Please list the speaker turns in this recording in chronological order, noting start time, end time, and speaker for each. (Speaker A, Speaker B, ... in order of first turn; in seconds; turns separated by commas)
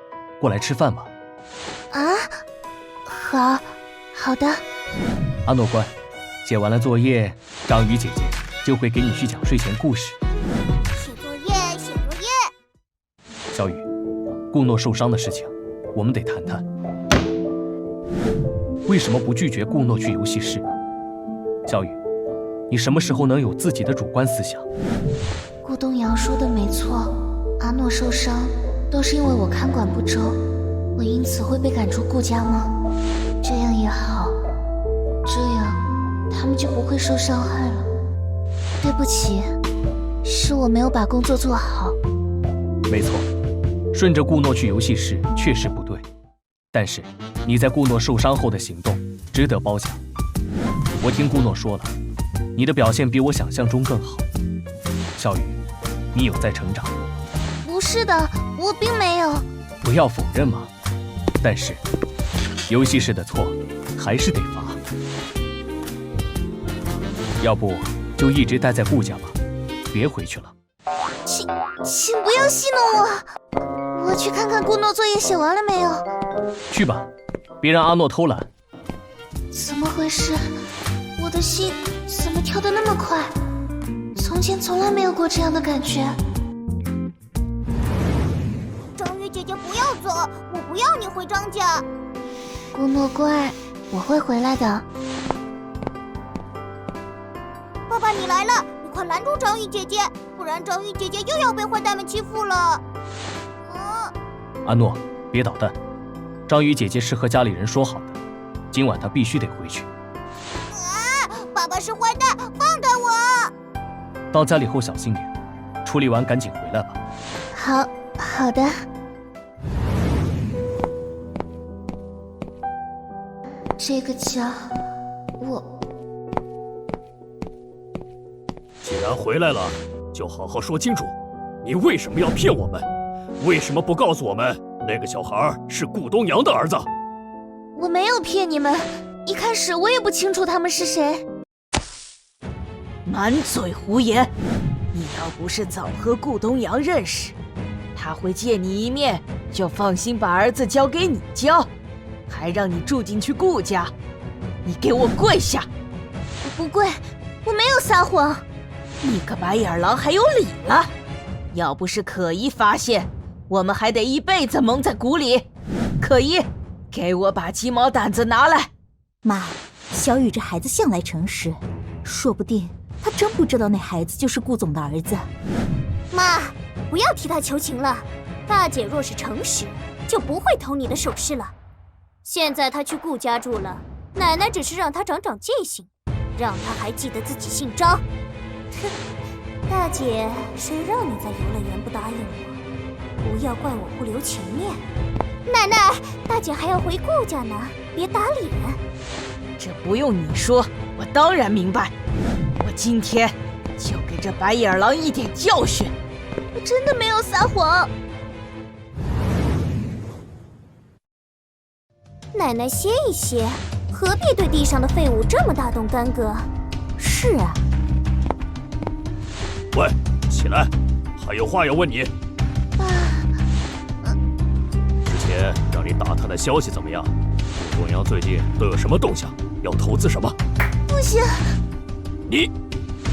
Speaker A: 0.4-1.1, Speaker B: 1.9-2.4, Speaker B: 3.1-4.6, Speaker A: 5.5-5.9, Speaker A: 6.4-10.2, Speaker C: 10.9-12.3, Speaker A: 13.5-13.8, Speaker A: 14.5-16.6, Speaker A: 18.9-20.6, Speaker A: 21.6-22.0, Speaker A: 22.7-24.6, Speaker B: 25.6-30.4, Speaker B: 30.9-32.7, Speaker B: 33.4-34.3, Speaker B: 35.2-35.8, Speaker B: 36.3-37.9, Speaker B: 38.8-39.5, Speaker B: 40.2-42.0, Speaker A: 42.9-43.3, Speaker A: 43.9-46.0, Speaker A: 46.7-50.0, Speaker A: 51.0-51.9, Speaker A: 52.5-54.2, Speaker A: 55.2-55.6, Speaker A: 56.1-57.0, Speaker B: 57.6-59.5, Speaker A: 59.8-60.7, Speaker A: 61.4-61.8, Speaker A: 62.7-64.8, Speaker A: 67.4-69.3, Speaker A: 69.9-70.5, Speaker B: 71.2-73.2, Speaker B: 73.9-76.0, Speaker A: 76.7-77.1, Speaker A: 77.6-78.5, Speaker B: 79.5-80.4, Speaker B: 81.2-83.3, Speaker B: 84.2-86.1, Speaker C: 89.0-91.8, Speaker B: 92.7-94.8, Speaker C: 97.9-102.8, Speaker C: 103.6-104.1, Speaker A: 104.6-105.8, Speaker A: 106.5-108.2, Speaker A: 108.7-109.9, Speaker C: 110.7-113.5, Speaker A: 114.3-115.3, Speaker A: 115.8-117.0, Speaker B: 117.5-118.8, Speaker B: 123.8-124.7, Speaker B: 125.4-125.6, Speaker D: 128.8-132.8, Speaker D: 133.4-136.9, Speaker B: 137.8-141.2, Speaker E: 143.1-144.3, Speaker E: 144.9-147.3, Speaker E: 147.9-151.7, Speaker E: 152.3-153.9, Speaker E: 154.6-155.7, Speaker B: 156.4-158.4, Speaker E: 159.0-160.9, Speaker E: 161.5-165.4, Speaker E: 166.0-168.7, Speaker F: 169.2-175.3, Speaker C: 176.1-181.5, Speaker C: 182.2-188.0, Speaker C: 189.7-192.6, Speaker C: 193.2-194.8, Speaker C: 195.5-198.8, Speaker E: 199.6-201.9, Speaker E: 202.6-205.9, Speaker B: 206.5-207.9, Speaker C: 212.3-216.5, Speaker F: 217.0-217.6, Speaker D: 219.7-222.1, Speaker B: 222.8-223.3, Speaker D: 225.1-230.4, Speaker B: 230.9-231.4